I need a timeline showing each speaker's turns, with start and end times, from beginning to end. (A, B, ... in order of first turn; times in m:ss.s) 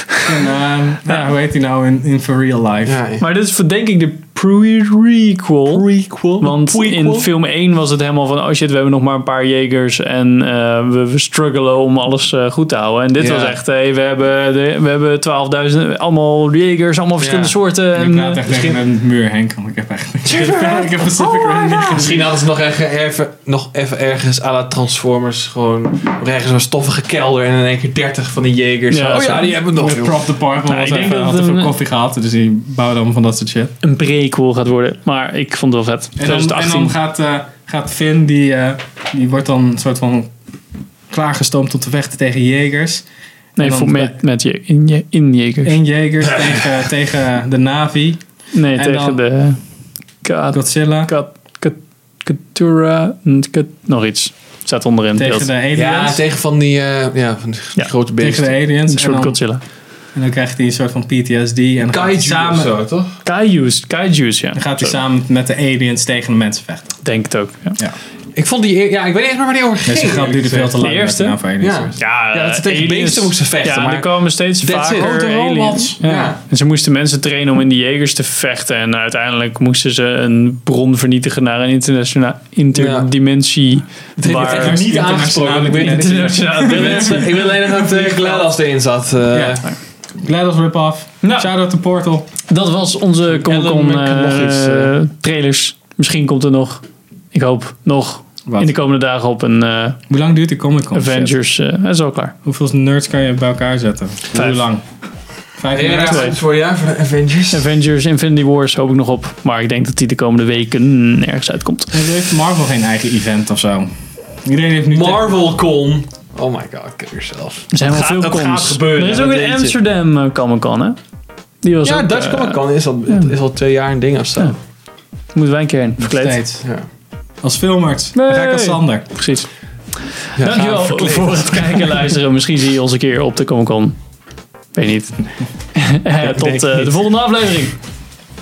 0:00.2-0:03.0 A
0:02.8-0:03.2 B
0:03.2-0:05.8 C
0:05.7-0:07.3 B
0:06.4-0:18.4 C
0:13.2-0:13.6 B
0:17.2-0:17.6 B
0:17.9-0:22.3 A
0:18.5-0:18.8 B
0:20.2-0:22.2 C
0:22.0-0:30.3 B
0:28.9-0:29.6 C
0:29.7-0:33.7 A
0:30.6-0:31.7 C
0:33.8-0:36.9 C
0:36.2-0:40.3 A
0:41.1-0:43.0 A
0:43.6-0:44.2 A
0:43.6-0:45.8 C
0:45.6-0:49.2 A
0:48.5-0:49.6 C
0:50.2-0:55.5 C
0:50.5-0:51.1 A
0:55.2-0:56.2 A
0:55.7-0:58.5 B
0:58.2-0:59.4 A
0:58.9-0:59.6 C
1:00.1-1:02.8 A
1:01.9-1:03.1 B
1:03.2-1:05.0 C
1:04.5-1:07.0 A
1:07.0-1:07.8 C
1:08.3-1:10.8 B
1:09.8-1:11.9 A
1:10.8-1:11.4 C
1:11.6-1:15.2 B
1:12.0-1:24.8 C
1:14.8-1:16.0 A
1:16.0-1:16.4 B
1:22.7-1:23.1 B
1:24.2-1:29.6 B
1:24.3-1:27.3 A
1:25.7-1:28.5 C
1:29.3-1:29.6 A
1:30.2-1:32.3 A
1:31.2-1:31.5 C
1:32.5-1:40.0 C
1:33.3-1:34.9 B
1:38.4-1:38.7 A
1:40.1-1:41.4 A
1:40.9-1:42.3 C
1:42.4-1:44.8 A
1:44.3-1:44.7 C
1:45.6-1:46.3 A
1:45.7-1:47.6 B
1:46.0-1:46.4 C
1:47.5-1:52.0 C
1:51.9-1:53.9 A
1:54.4-1:55.3 A
1:54.9-1:59.8 B
1:57.7-2:01.0 C
2:01.6-2:03.3 C
2:01.8-2:04.5 B
2:05.3-2:06.4 C
2:06.0-2:06.6 A
2:07.4-2:09.2 A
2:08.1-2:09.5 C
2:10.3-2:14.0 C
2:10.4-2:12.1 B
2:14.7-2:17.8 C
2:16.2-2:17.0 A